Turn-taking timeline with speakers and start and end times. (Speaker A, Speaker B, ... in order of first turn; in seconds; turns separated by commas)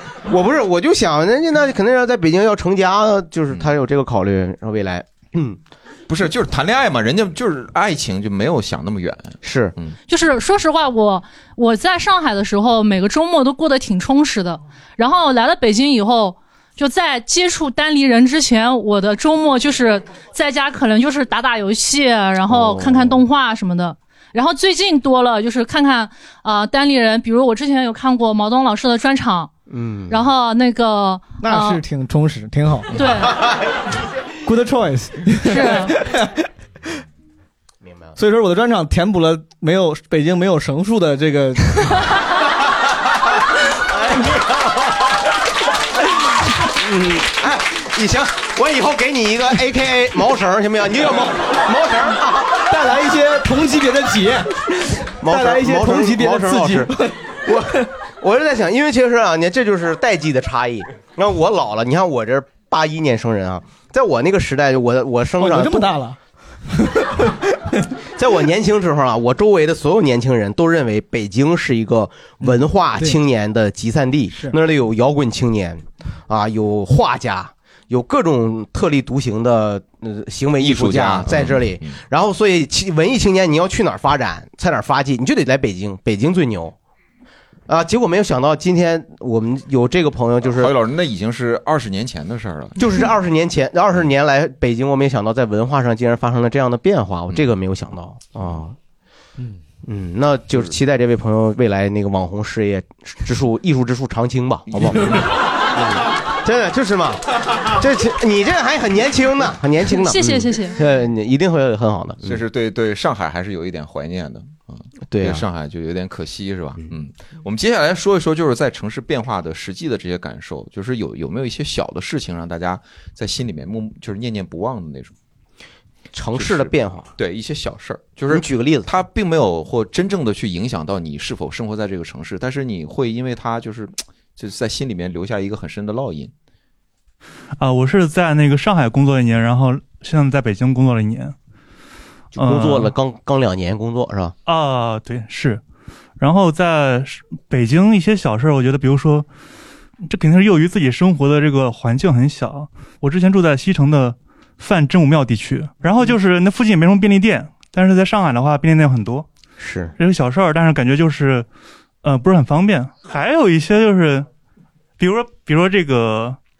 Speaker A: 0.3-5.6, Speaker B: 6.1-9.9, Speaker A: 9.4-9.7, Speaker C: 10.1-29.5, Speaker A: 22.5-23.2, Speaker A: 29.7-30.3, Speaker C: 30.1-31.8, Speaker D: 31.4-33.0, Speaker C: 32.9-33.4, Speaker D: 34.4-36.4, Speaker C: 35.4-36.0, Speaker A: 37.8-38.2, Speaker D: 38.2-41.9, Speaker A: 43.9-45.0, Speaker A: 46.7-52.6, Speaker D: 52.6-57.2, Speaker A: 55.2-56.9, Speaker A: 57.5-65.9, Speaker D: 65.4-66.2, Speaker D: 66.8-67.8, Speaker A: 68.2-86.7, Speaker D: 72.4-73.2, Speaker B: 80.6-82.0, Speaker A: 87.7-90.7, Speaker B: 90.4-92.8, Speaker A: 92.8-98.8, Speaker A: 99.8-105.2, Speaker B: 104.7-105.3, Speaker A: 105.7-112.4, Speaker C: 109.9-110.8, Speaker B: 112.2-125.1, Speaker A: 115.1-115.4, Speaker A: 126.1-127.1, Speaker B: 126.3-136.3, Speaker A: 128.3-128.9, Speaker E: 137.6-141.3, Speaker A: 142.3-144.3, Speaker E: 142.3-142.9, Speaker E: 144.4-145.6, Speaker E: 146.2-149.3, Speaker E: 150.1-159.3, Speaker A: 159.6-159.9, Speaker E: 160.0-161.4, Speaker E: 162.0-164.3, Speaker E: 165.0-166.4